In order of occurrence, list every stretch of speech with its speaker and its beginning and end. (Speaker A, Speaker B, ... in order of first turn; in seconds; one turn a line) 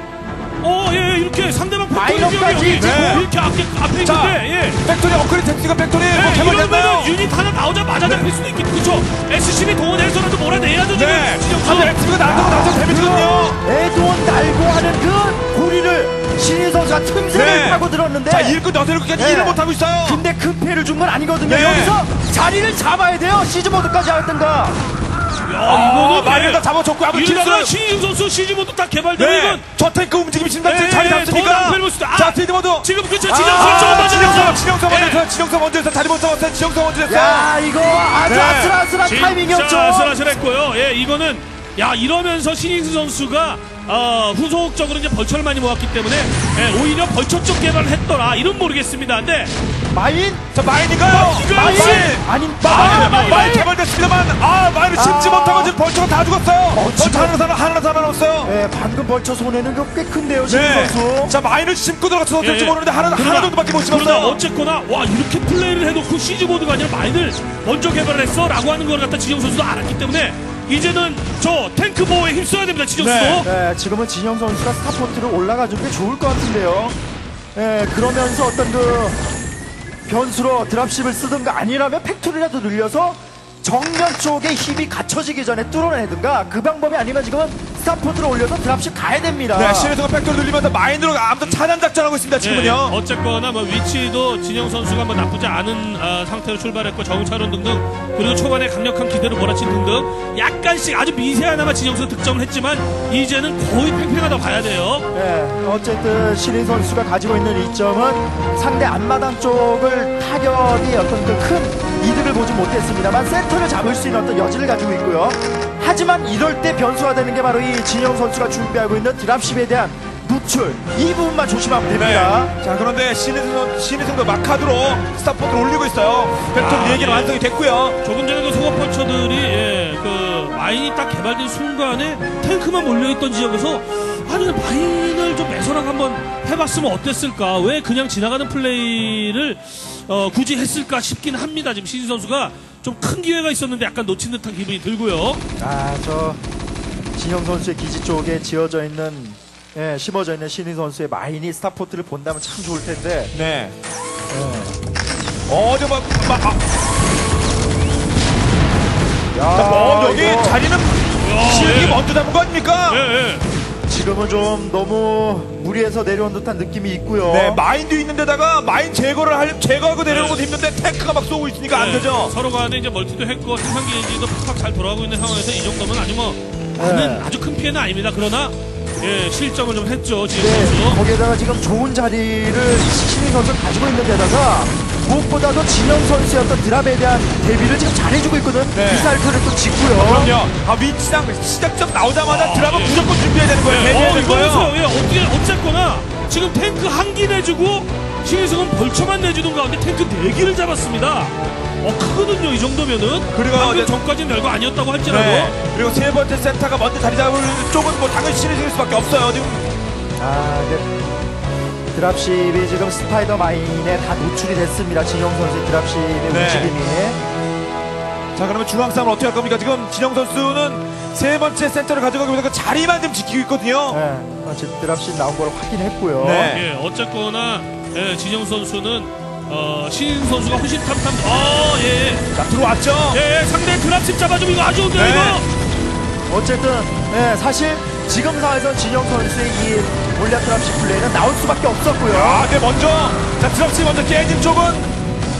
Speaker A: 0.6-4.8
Speaker B: 1.9-3.2
Speaker C: 2.7-3.3
Speaker C: 4.0-7.2
Speaker A: 6.1-12.0
Speaker C: 8.0-8.3
Speaker C: 10.9-13.6
Speaker B: 12.2-18.6
Speaker C: 17.3-20.2
Speaker B: 19.1-24.8
Speaker C: 21.4-22.0
Speaker A: 25.4-29.6
Speaker C: 25.6-27.7
Speaker C: 29.1-37.5
Speaker A: 30.6-35.2
Speaker B: 37.0-40.2
Speaker C: 38.2-38.8
Speaker A: 39.0-49.5
Speaker B: 49.9-50.4
Speaker C: 50.5-58.5
Speaker A: 51.0-53.6
Speaker B: 51.5-53.7
Speaker B: 54.9-55.8
Speaker B: 56.7-57.4
Speaker B: 58.4-61.4
Speaker C: 60.5-64.4
Speaker A: 62.4-73.5
Speaker C: 73.0-73.5
Speaker B: 73.4-77.0
Speaker B: 77.5-79.2
Speaker B: 80.0-90.0
Speaker C: 89.5-92.9
Speaker A: 92.4-105.1
Speaker B: 105.1-122.5
Speaker C: 121.9-128.0
Speaker A: 126.5-127.4
Speaker A: 128.0-145.4
Speaker B: 145.6-146.4
Speaker B: 147.2-153.3
Speaker C: 153.3-153.7
Speaker B: 154.3-154.8
Speaker C: 155.5-156.6
Speaker B: 159.3-160.6
Speaker C: 159.5-163.1
Speaker A: 161.2-162.0
Speaker A: 162.9-163.4
Speaker B: 163.9-167.6
Speaker C: 167.2-172.3
Speaker A: 170.1-170.4
Speaker A: 171.7-181.0
Speaker B: 176.8-177.3
Speaker B: 180.4-190.3
Speaker C: 188.7-189.1
Speaker C: 189.9-194.7
Speaker A: 192.2-193.0
Speaker A: 193.7-205.6
Speaker C: 203.3-203.9
Speaker C: 205.0-209.7
Speaker B: 210.2-211.0
Speaker B: 211.9-217.2
Speaker C: 216.3-216.7
Speaker C: 218.3-224.0
Speaker B: 223.9-226.5
Speaker C: 226.2-226.7
Speaker A: 226.5-232.3
Speaker C: 232.3-233.2
Speaker A: 233.1-235.5
Speaker C: 234.9-235.4
Speaker B: 236.3-242.5
Speaker C: 242.1-244.9